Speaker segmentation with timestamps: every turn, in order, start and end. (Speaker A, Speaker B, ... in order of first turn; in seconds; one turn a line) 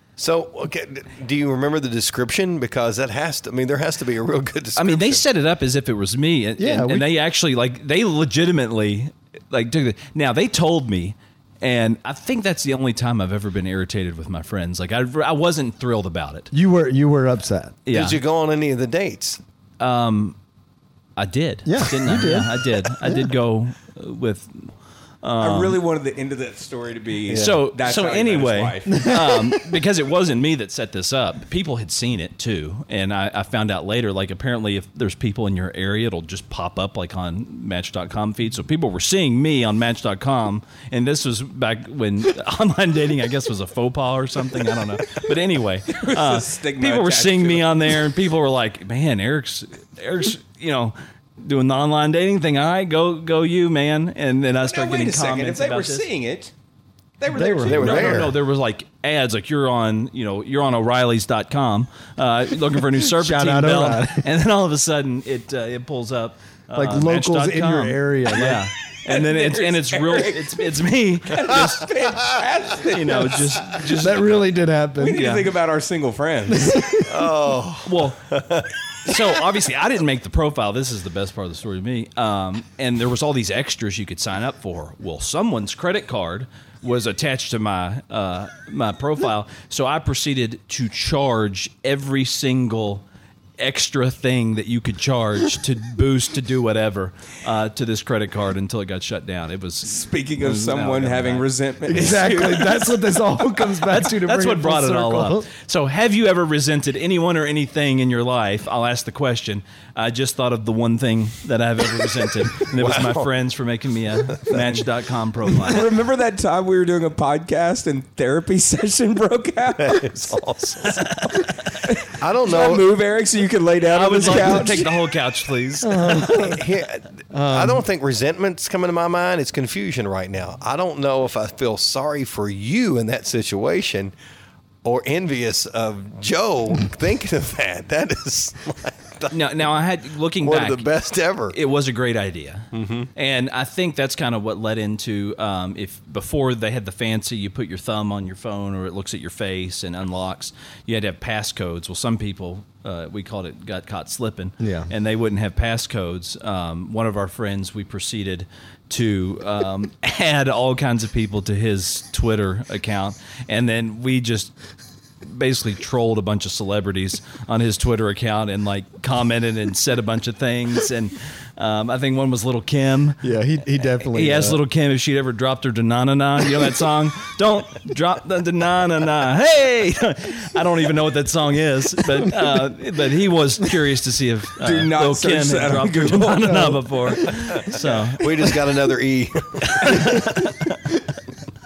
Speaker A: 0.2-5.2
Speaker B: 4.8-16.5
Speaker C: 6.6-7.1
Speaker C: 16.5-17.8
Speaker B: 17.9-18.2
Speaker A: 17.9-19.4
Speaker B: 19.8-20.4
Speaker B: 21.2-25.8
Speaker C: 21.6-23.3
Speaker D: 25.4-29.1
Speaker A: 27.3-27.5
Speaker B: 27.3-56.1
Speaker C: 28.9-29.7
Speaker D: 45.9-48.1
Speaker D: 54.6-56.5
Speaker D: 57.2-58.3
Speaker C: 57.3-58.0
Speaker A: 57.6-58.3
Speaker B: 57.8-71.9
Speaker C: 63.1-64.3
Speaker C: 66.7-68.7
Speaker D: 69.0-70.8
Speaker D: 71.3-74.0
Speaker B: 72.9-74.3
Speaker C: 74.0-75.3
Speaker D: 75.0-76.8
Speaker B: 75.1-75.5
Speaker C: 76.5-77.3
Speaker A: 77.0-79.2
Speaker B: 77.8-78.4
Speaker B: 79.0-93.0
Speaker B: 93.6-101.5
Speaker D: 99.8-102.9
Speaker C: 101.9-105.5
Speaker B: 103.9-115.9
Speaker A: 112.7-113.3
Speaker A: 114.3-114.8
Speaker D: 115.5-120.3
Speaker A: 119.8-121.4
Speaker B: 120.8-121.5
Speaker D: 121.8-125.0
Speaker A: 122.0-122.8
Speaker B: 123.9-126.2
Speaker C: 124.3-124.9
Speaker C: 125.8-126.6
Speaker A: 126.1-134.1
Speaker C: 127.3-127.8
Speaker A: 134.8-139.4
Speaker B: 139.3-140.9
Speaker A: 140.4-141.6
Speaker B: 141.5-164.6
Speaker A: 142.7-143.1
Speaker C: 154.6-154.9
Speaker B: 165.2-173.2
Speaker C: 173.2-174.6
Speaker B: 174.1-188.5
Speaker D: 184.6-186.8
Speaker C: 186.4-187.4
Speaker A: 187.5-190.3
Speaker B: 189.7-190.7